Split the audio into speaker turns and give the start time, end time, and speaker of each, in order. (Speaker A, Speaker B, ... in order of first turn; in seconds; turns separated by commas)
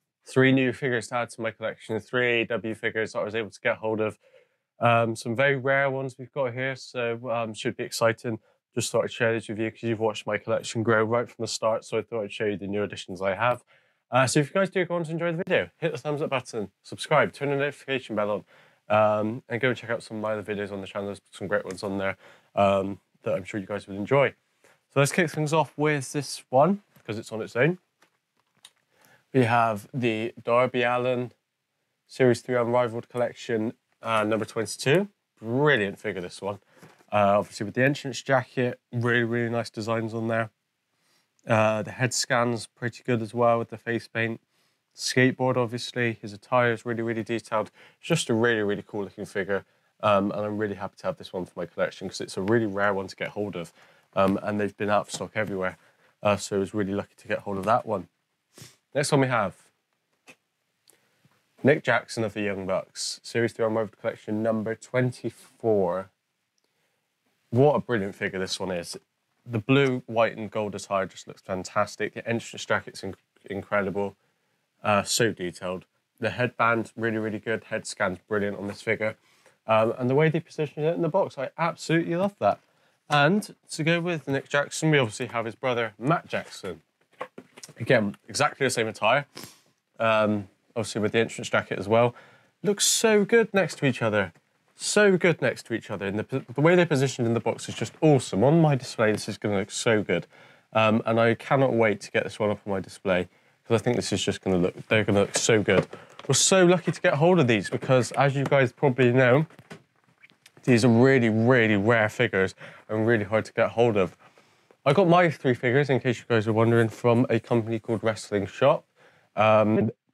Speaker A: 0.2-4.2, Speaker A: 4.8-24.4, Speaker A: 24.9-27.8, Speaker A: 29.3-31.4, Speaker A: 32.1-36.6, Speaker A: 37.1-40.5, Speaker A: 41.5-44.4, Speaker A: 45.0-58.1, Speaker A: 58.9-59.7, Speaker A: 61.6-66.1, Speaker A: 67.5-74.2, Speaker A: 74.8-86.8, Speaker A: 87.8-89.3, Speaker A: 90.0-109.5, Speaker A: 110.6-114.2, Speaker A: 114.8-120.0